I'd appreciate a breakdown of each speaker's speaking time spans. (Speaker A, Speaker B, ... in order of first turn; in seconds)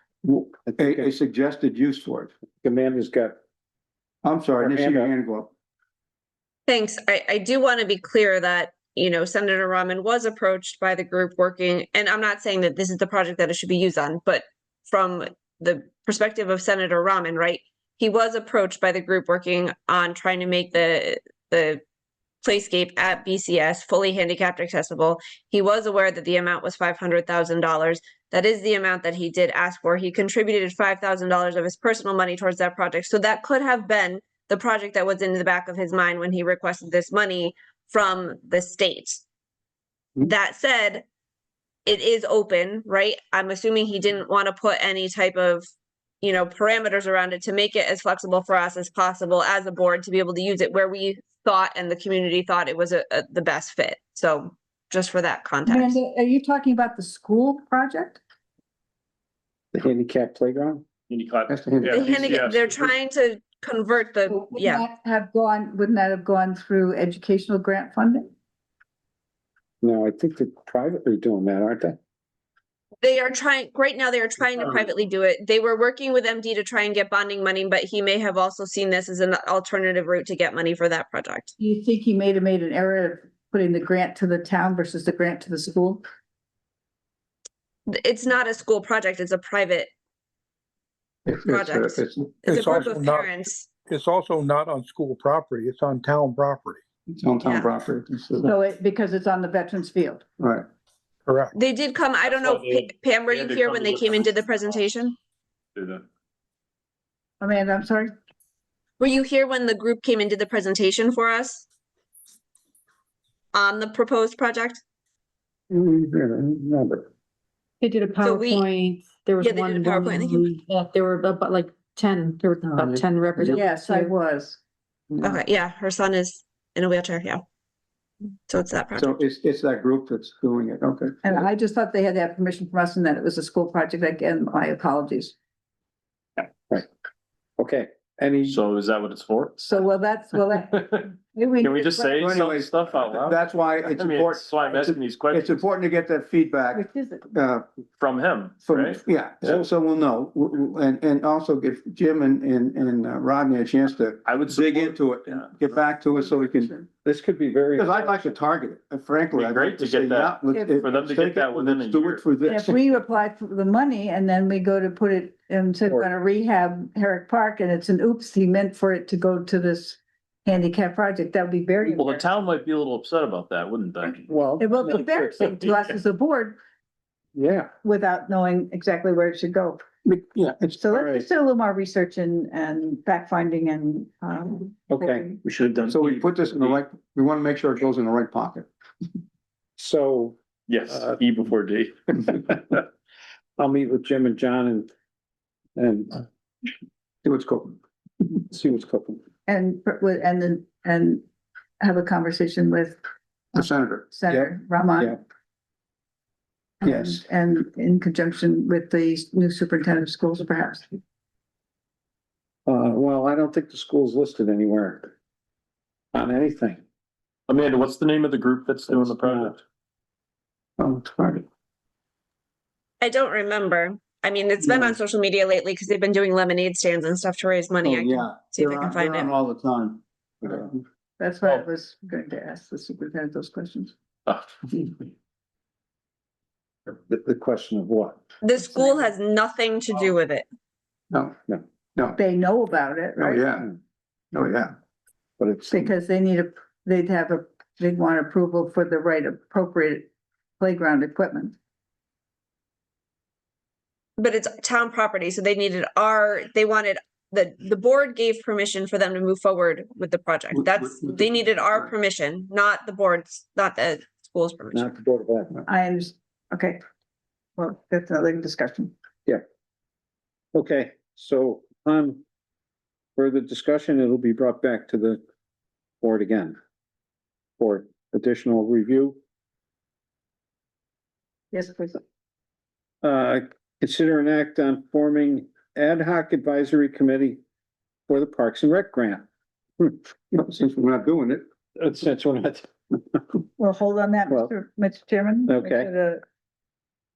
Speaker A: 0.2-2.3, 4.2-5.5, 61.5-62.5, 91.2-92.8, 97.1-98.5, 128.9-131.4, 142.1-147.6, 148.6-156.7, 157.8-162.7, 180.0-180.8, 185.8-188.7, 197.2-197.8, 203.5-205.1, 206.8-207.2, 220.8-221.4, 224.6-224.9, 227.8-230.8, 241.1-241.3, 243.2-243.7, 244.3-244.7, 245.4-245.8, 290.3-291.4
Speaker B: 0.7-1.1, 2.6-3.3, 4.6-5.1, 59.7-60.8, 69.8-72.0, 115.7-117.1, 137.6-138.6, 157.0-158.3, 174.3-175.0, 177.3-177.7, 180.9-181.2, 184.9-185.3, 189.8-190.4, 190.9-191.2, 193.6-194.9, 195.8-196.2, 198.5-199.2, 212.7-215.1, 216.1-216.8, 219.0-219.5, 236.9-238.2, 264.7-265.6, 270.5-272.2, 273.2-275.2, 276.0-276.6, 277.6-279.2, 283.0-287.4, 288.1-289.2, 291.8-293.2, 295.5-295.9
Speaker C: 6.7-21.8, 22.4-39.2, 40.2-41.0, 41.9-45.6, 46.2-56.0, 61.9-64.8, 73.0-81.5, 87.9-89.9, 91.4-93.7, 97.4-97.7, 101.5-105.1, 109.0-111.6, 113.5-114.8, 118.2-118.6, 119.4-120.5, 125.2-127.4, 128.5-129.2, 223.0-229.3, 238.4-240.4, 254.2-264.9
Speaker D: 55.6-58.2, 64.3-68.3, 81.6-86.0, 98.4-100.2, 107.4-108.1, 123.4-124.6, 131.2-135.3, 139.6-142.2, 146.7-147.3, 156.2-156.9, 162.4-172.3, 174.6-176.6, 177.8-179.8, 180.8-185.4, 199.4-201.2, 201.8-203.0, 204.1-205.2, 206.8-211.0, 231.2-233.9, 238.6-239.1, 242.2-243.4, 245.7-250.1, 250.6-251.6, 265.7-266.8, 267.6-268.9, 281.5-282.0, 293.6-296.2
Speaker E: 61.1-62.9, 102.3-104.7, 105.8-106.0, 138.5-139.8, 140.8-141.0, 141.6-145.6, 148.0-149.6, 154.2-155.7, 159.3-162.2, 172.0-174.2, 185.4-186.7, 190.7-192.4, 217.5-219.6
Speaker F: 92.5-96.8, 101.3-101.5
Speaker G: 117.8-124.1